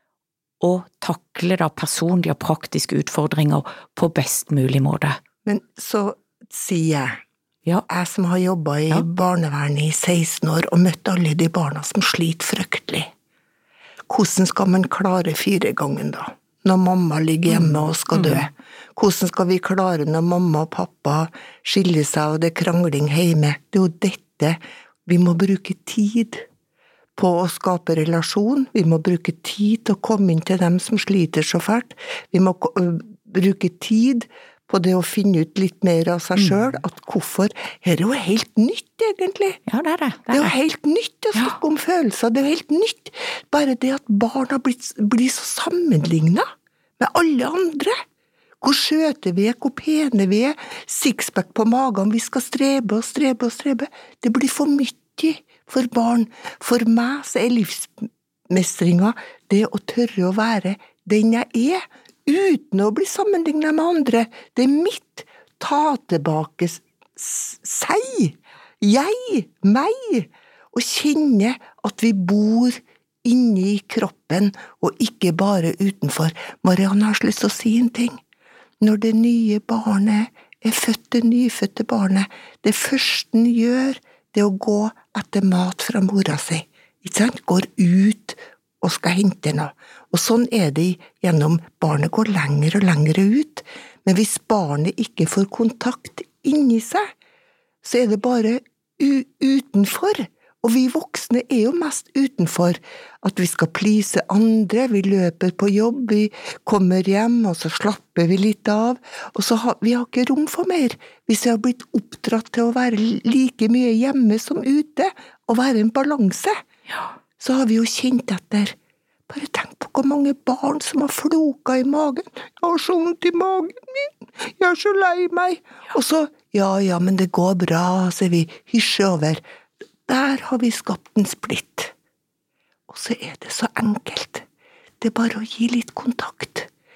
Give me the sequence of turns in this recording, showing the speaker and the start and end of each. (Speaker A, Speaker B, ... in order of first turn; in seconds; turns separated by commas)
Speaker A: 0.6-5.2, Speaker B: 5.5-7.2, Speaker B: 7.9-13.1, Speaker B: 14.1-26.5, Speaker A: 17.5-18.5, Speaker B: 27.2-39.6, Speaker A: 39.7-40.5, Speaker B: 40.3-46.4, Speaker B: 47.0-48.0, Speaker B: 48.6-78.2, Speaker B: 78.8-97.1, Speaker B: 97.8-116.6, Speaker B: 117.4-118.8, Speaker B: 119.3-129.4, Speaker B: 130.1-131.9, Speaker B: 132.9-134.5, Speaker B: 135.0-136.7